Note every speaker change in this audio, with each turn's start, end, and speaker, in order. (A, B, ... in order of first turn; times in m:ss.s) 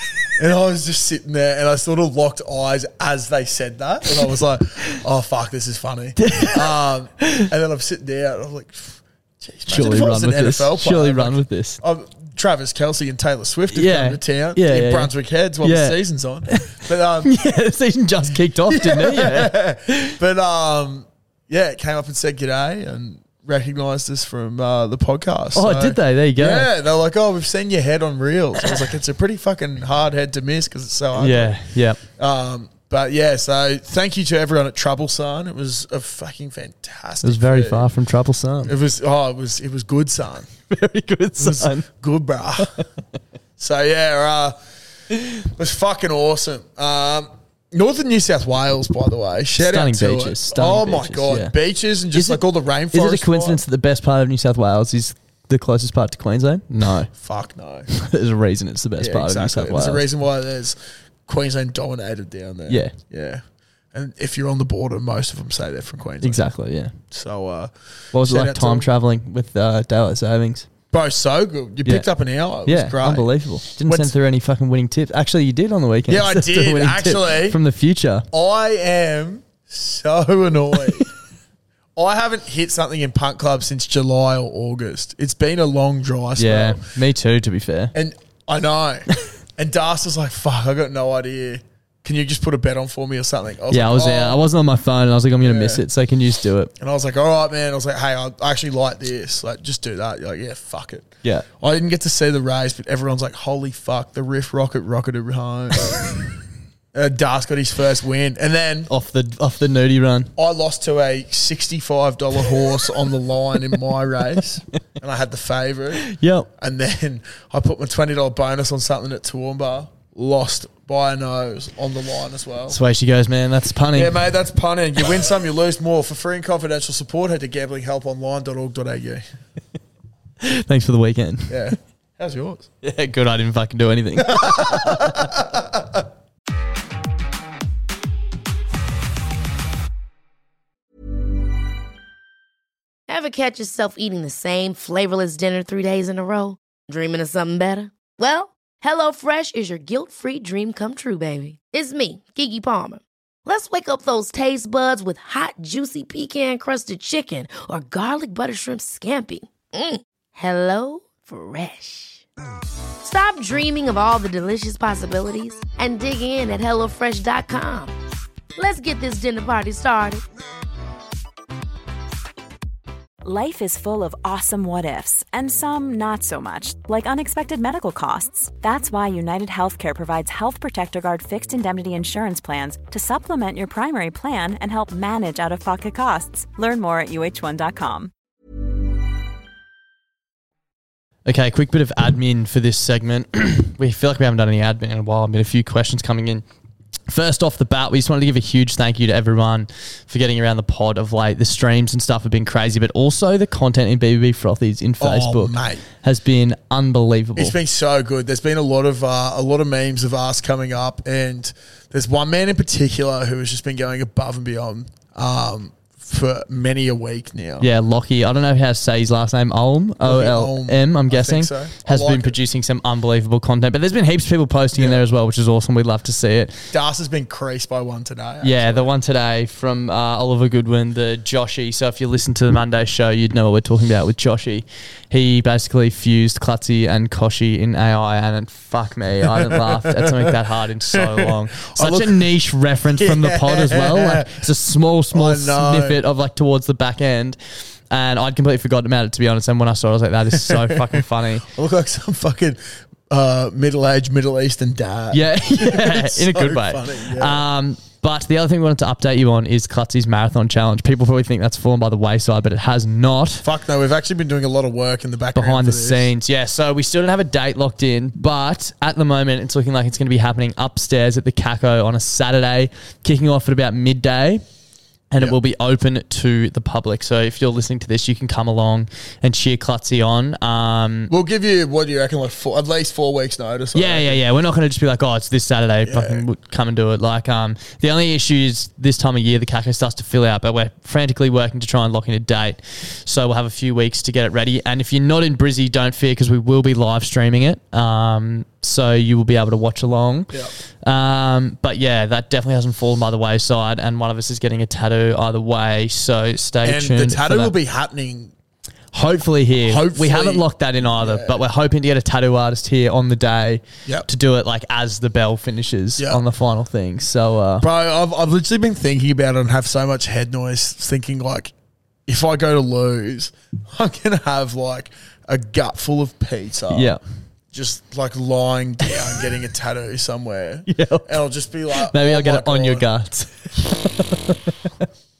0:00.4-0:17.3 A
0:06.2-0:06.6 B
0:07.2-0:07.5 B
0:09.7-0:11.8 B
0:13.7-0:15.1 B
0:15.6-0:16.0 B
0:16.5-0:20.2 B
0:18.7-0:37.9 A
0:25.5-0:26.7 B
0:31.1-0:32.0 B
0:37.2-0:38.7 B
0:38.6-0:40.5 A
0:40.7-0:41.8 B
0:41.4-0:42.8 A
0:43.6-0:44.6 A
0:45.2-0:53.6 A
0:49.5-0:51.5 B
0:52.1-0:57.1 B
0:57.1-0:57.9 A
0:57.9-1:00.0 B
0:59.0-1:06.4 A
1:02.7-1:02.9 B
1:06.2-1:06.9 B
1:07.1-1:08.9 A
1:08.1-1:10.7 B
1:10.9-1:14.1 A
1:12.6-1:18.2 B
1:16.1-1:17.6 A
1:18.3-1:21.1 A
1:22.0-1:26.8 A
1:26.4-1:27.9 B
1:27.9-1:34.4 A
1:33.7-1:36.7 B
1:35.4-1:35.8 A
1:36.8-1:46.2 A
1:46.9-1:48.9 A
1:48.9-1:50.3 B
1:50.4-2:02.8 A
1:56.0-1:56.5 B
2:02.7-2:04.2 B
2:03.9-2:09.2 A
2:10.4-2:11.6 B
2:11.5-2:12.7 A
2:12.8-2:15.4 B
2:14.2-2:16.0 A
2:23.1-2:42.2 C
2:43.0-2:47.9 C
2:48.6-2:50.2 C
2:53.2-3:08.1 D
3:11.2-3:16.4 B
3:17.1-3:27.6 B
3:25.0-3:25.8 A
3:27.4-3:37.7 A
3:37.6-3:46.6 B
3:40.0-3:42.4 A
3:44.7-3:45.0 A
3:46.7-3:48.9 A
3:48.4-4:07.4 B
3:59.3-4:00.4 A
4:00.9-4:02.2 A
4:03.0-4:04.4 A
4:05.1-4:06.0 A
4:07.9-4:11.5 B
4:10.3-4:17.4 A
4:15.1-4:23.4 B
4:23.4-4:26.1 A
4:25.3-4:34.4 B
4:35.1-4:41.1 B
4:41.1-4:44.2 A
4:43.7-5:07.5 B
4:45.8-4:46.2 A
5:06.6-5:08.3 A
5:08.9-5:17.7 B
5:09.6-5:11.4 A
5:16.0-5:16.2 A
5:17.6-5:21.5 A
5:22.1-5:26.9 A
5:26.7-5:27.0 B
5:27.5-5:32.9 A
5:30.7-5:31.2 B
5:31.8-5:34.5 B